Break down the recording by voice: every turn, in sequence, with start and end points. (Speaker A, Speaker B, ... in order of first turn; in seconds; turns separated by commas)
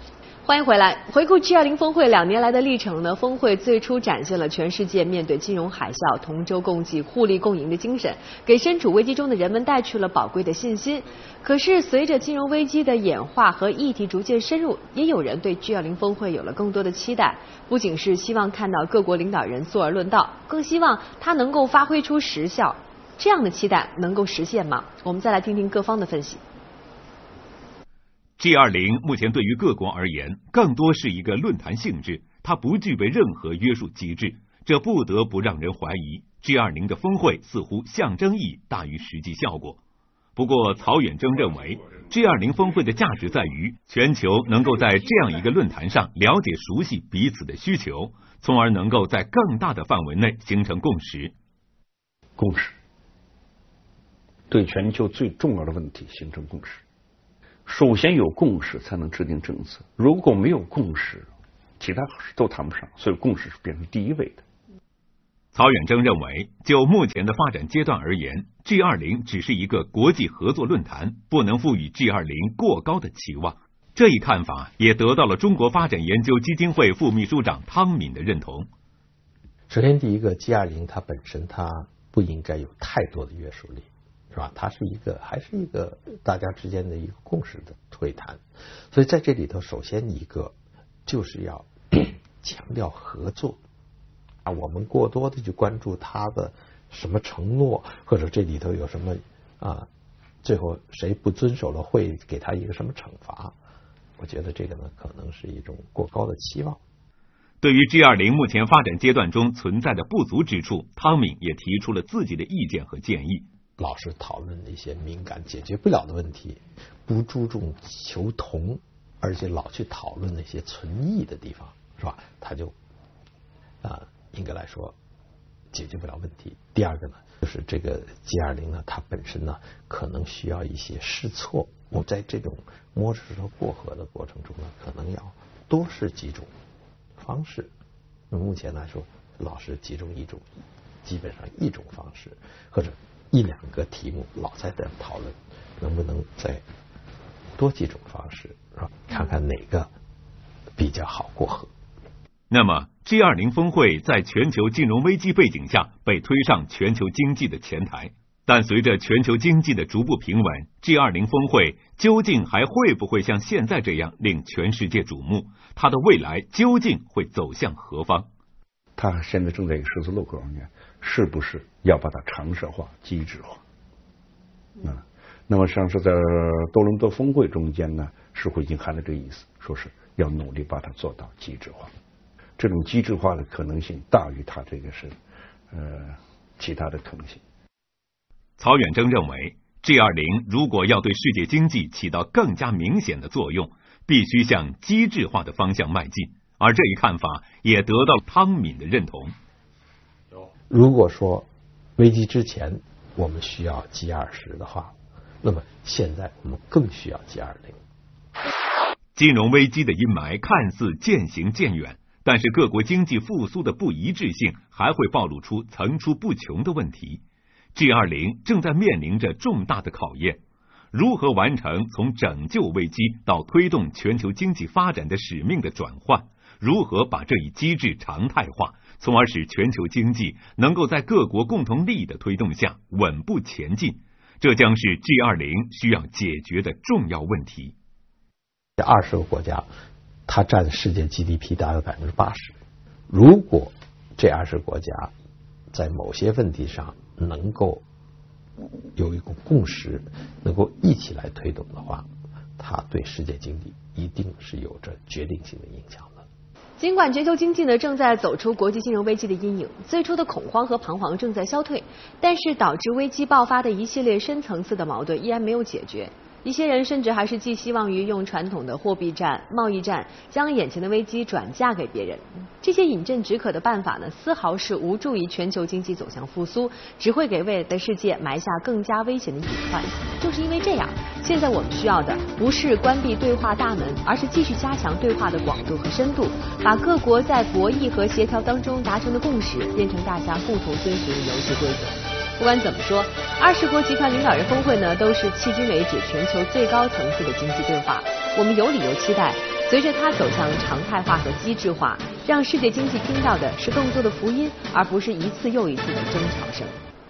Speaker A: 0.5-26.4, Speaker B: 28.4-39.8, Speaker B: 40.4-51.3, Speaker C: 52.4-52.8, Speaker C: 54.5-56.8, Speaker C: 57.6-64.4, Speaker B: 65.5-78.7, Speaker D: 79.7-90.5, Speaker D: 91.0-93.6, Speaker D: 94.4-99.9, Speaker D: 100.4-103.5, Speaker D: 104.2-106.8, Speaker B: 107.6-113.5, Speaker D: 113.8-122.7, Speaker D: 123.8-125.0, Speaker D: 125.7-136.5, Speaker D: 137.2-137.7, Speaker D: 138.3-146.6, Speaker D: 147.6-149.9, Speaker D: 150.8-151.7, Speaker B: 152.5-168.3, Speaker C: 168.9-173.6, Speaker C: 174.8-181.9, Speaker C: 182.6-185.2, Speaker C: 185.7-187.4, Speaker B: 188.6-199.3, Speaker D: 200.7-207.8, Speaker B: 209.1-217.2, Speaker B: 217.7-220.4, Speaker B: 220.9-237.7, Speaker D: 238.8-239.7, Speaker D: 240.3-242.6, Speaker D: 243.1-245.1, Speaker D: 245.7-247.8, Speaker D: 248.9-252.1, Speaker D: 252.6-256.2, Speaker A: 256.8-306.8